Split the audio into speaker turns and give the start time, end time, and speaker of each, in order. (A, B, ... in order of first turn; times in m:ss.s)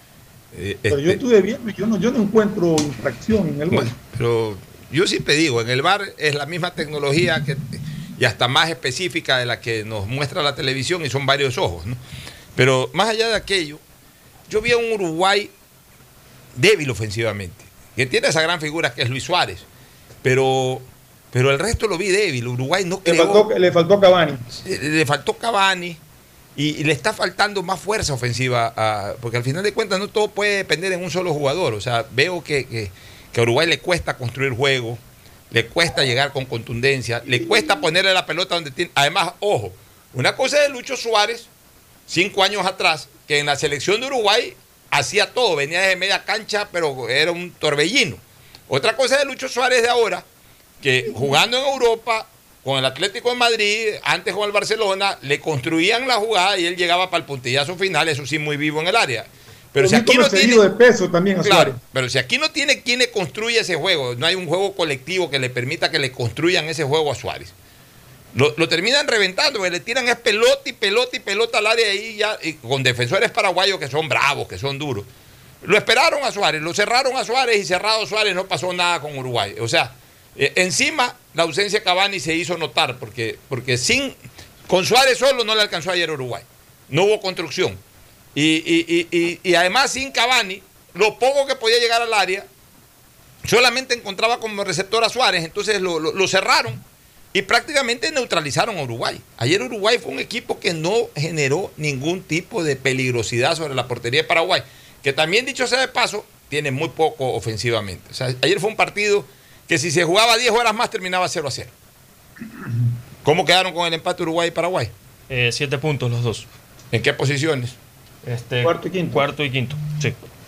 0:00.5-0:01.2 A
0:00.9-0:03.9 B
0:03.7-0:12.0 A
0:12.6-0:13.8 A
0:14.5-0:15.5 A
0:16.5-0:19.6 A
0:20.2-0:23.5 A
0:23.0-0:24.4 B
0:24.5-0:26.0 A
0:26.6-0:35.0 A
0:35.5-0:41.5 A
0:42.1-0:50.2 A
0:50.8-1:00.6 A
0:59.8-1:01.8 B
1:01.4-1:07.5 A
1:08.3-1:15.1 A
1:15.6-1:24.2 A
1:24.7-1:27.8 A
1:28.3-1:32.5 A
1:33.4-1:51.7 A
1:52.6-1:52.9 B
1:53.2-1:54.9 A
1:55.3-1:56.5 C
1:56.9-1:57.8 A
1:58.2-2:00.2 C
1:58.6-1:59.2 B